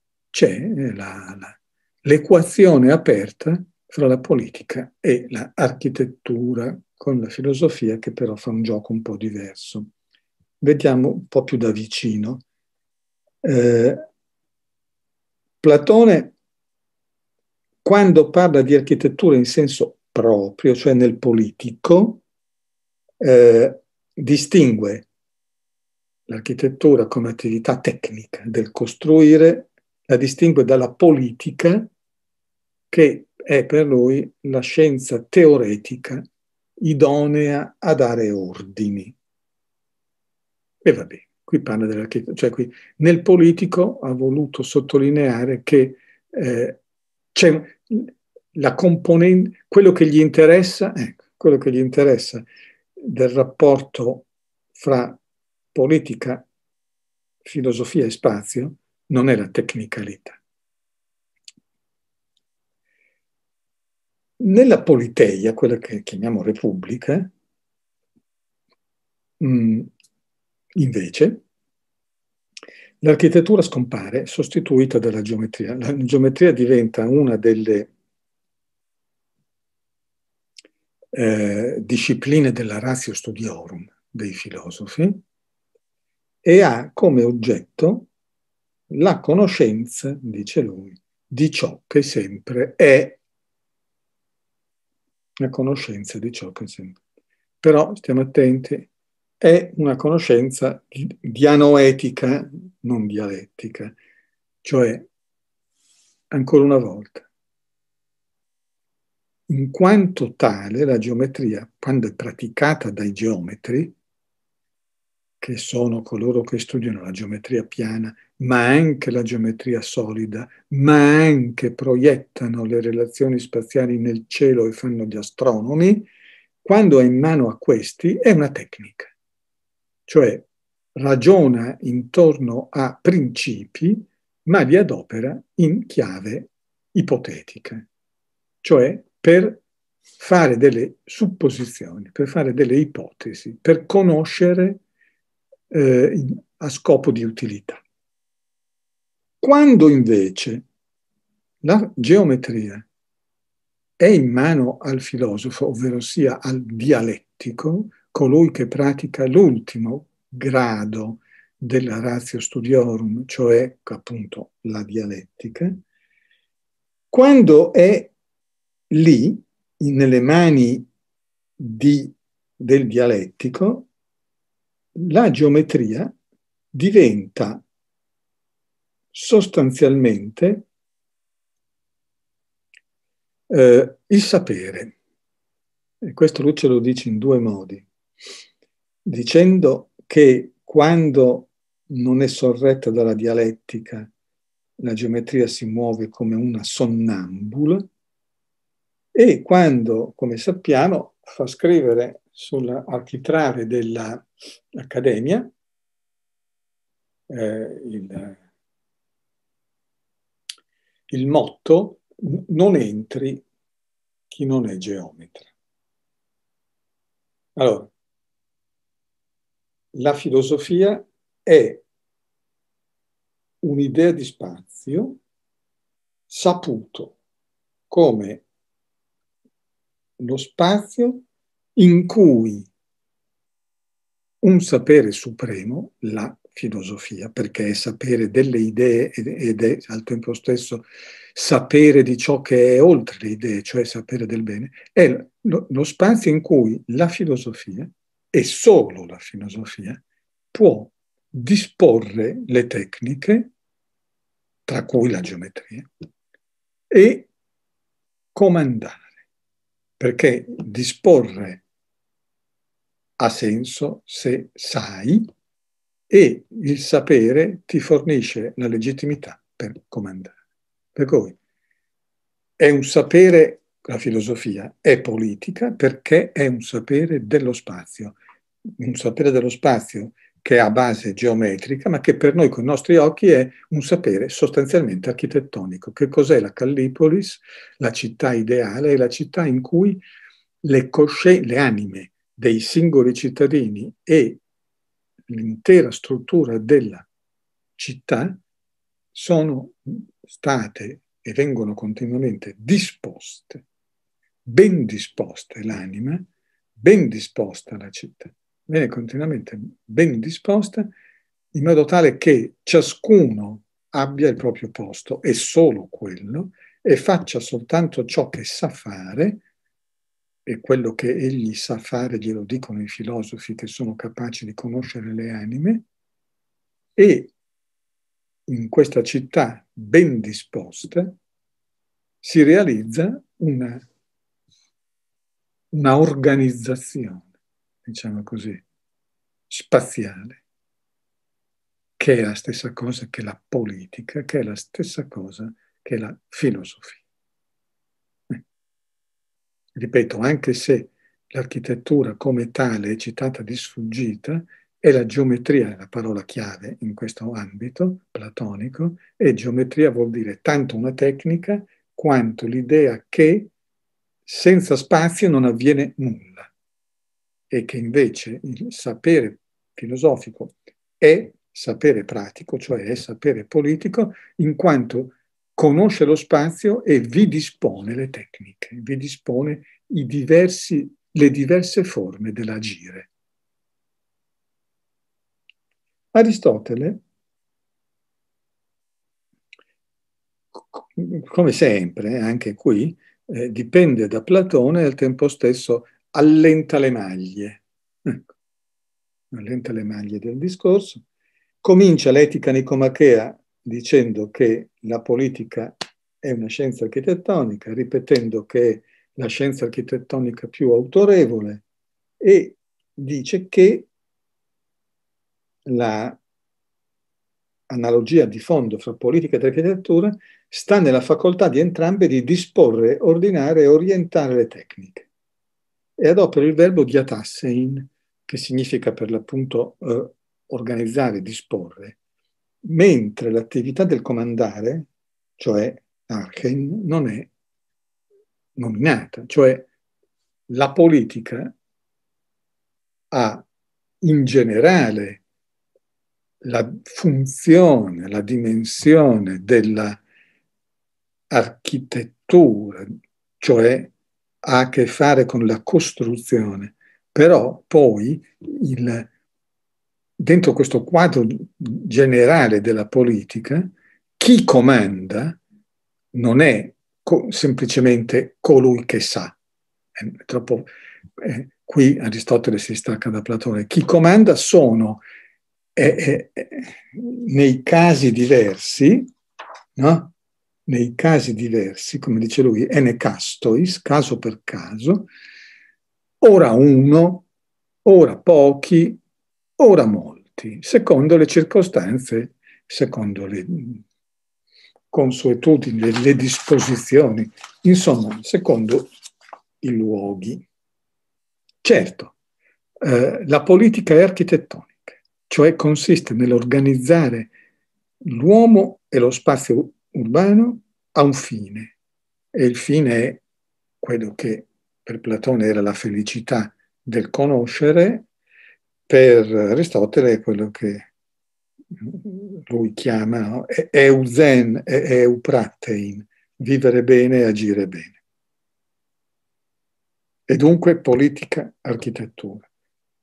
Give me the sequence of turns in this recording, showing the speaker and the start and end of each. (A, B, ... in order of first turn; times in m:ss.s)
0:00.3-0:09.9 A
0:10.6-0:12.4 A
0:13.4-0:14.0 A
0:15.6-0:16.3 A
0:17.8-0:22.2 A
0:23.2-0:25.1 A
0:26.3-0:31.9 A
0:32.9-0:36.2 A
0:36.8-0:39.2 A
0:40.8-0:46.8 A
0:47.3-0:52.4 A
0:53.0-0:55.2 A
0:55.7-0:56.5 A
0:57.4-1:00.4 A
1:04.4-1:07.3 A
1:09.4-1:09.9 A
1:10.8-1:11.4 A
1:13.0-1:17.9 A
1:21.1-1:25.2 A
1:26.4-1:28.1 A
1:28.9-1:33.2 A
1:35.4-1:37.0 A
1:37.6-1:38.9 A
1:39.4-1:44.0 A
1:44.6-1:45.1 A
1:46.3-1:47.3 A
1:49.5-1:53.9 A
1:55.4-2:06.1 A
2:06.6-2:09.1 A
2:10.1-2:17.9 A
2:18.6-2:19.6 A
2:20.2-2:24.8 A
2:25.7-2:27.8 A
2:29.4-2:30.6 A
2:31.6-2:32.9 A
2:34.0-2:45.8 A
2:47.1-2:48.1 A
2:48.9-2:50.9 A
2:51.6-2:53.9 A
2:55.0-2:56.1 A
2:56.7-2:57.6 A
2:59.1-3:00.7 A
3:03.5-3:05.0 A
3:06.0-3:07.9 A
3:09.0-3:14.1 A
3:14.8-3:17.9 A
3:19.1-3:25.5 A
3:27.3-3:28.4 A
3:31.1-3:33.4 A
3:34.3-3:35.5 A
3:37.6-3:37.9 A
3:39.9-3:41.8 A
3:43.6-3:45.2 A
3:46.3-3:47.2 A
3:47.9-3:48.4 A
3:50.2-3:51.2 A
3:51.8-3:52.7 A
3:54.4-4:10.0 A
4:10.5-4:13.5 A
4:14.7-4:15.9 A
4:16.9-4:17.3 A
4:18.3-4:19.1 A
4:20.0-4:21.6 A
4:23.2-4:25.3 A
4:26.1-4:30.4 A
4:30.9-4:31.4 A
4:32.6-4:38.2 A
4:38.8-4:50.0 A
4:50.6-4:54.4 A
4:55.3-4:57.1 A
4:57.8-4:58.4 A
4:59.1-5:03.6 A
5:04.4-5:06.2 A
5:06.8-5:10.9 A
5:11.5-5:19.4 A
5:20.4-5:25.8 A
5:27.0-5:27.3 A
5:28.5-5:31.2 A
5:32.2-5:33.8 A
5:35.7-5:37.3 A
5:37.8-5:38.6 A
5:39.5-5:40.4 A
5:42.0-5:47.0 A
5:49.7-6:03.5 A
6:04.2-6:06.5 A
6:07.5-6:23.1 A
6:26.1-6:27.0 A
6:30.6-6:38.2 A
6:39.3-6:41.0 A
6:41.6-6:51.6 A
6:52.2-6:53.9 A
6:55.7-6:56.2 A
6:57.7-7:05.1 A
7:06.0-7:12.0 A
7:12.6-7:14.9 A
7:15.4-7:17.3 A
7:18.6-7:19.7 A
7:20.5-7:21.5 A
7:23.1-7:23.4 A
7:24.0-7:25.2 A
7:26.4-7:30.0 A
7:31.3-7:39.1 A
7:40.2-7:45.4 A
7:46.1-7:49.4 A
7:50.0-7:55.0 A
7:55.8-7:59.1 A
7:59.8-8:00.1 A
8:00.7-8:05.1 A
8:06.2-8:07.2 A
8:07.8-8:09.0 A
8:09.6-8:13.8 A
8:14.9-8:18.9 A
8:19.6-8:20.4 A
8:21.6-8:22.2 A
8:22.8-8:27.3 A
8:28.0-8:31.7 A
8:32.3-8:33.2 A
8:33.8-8:38.1 A
8:38.9-8:40.9 A
8:41.8-8:48.0 A
8:50.3-8:52.5 A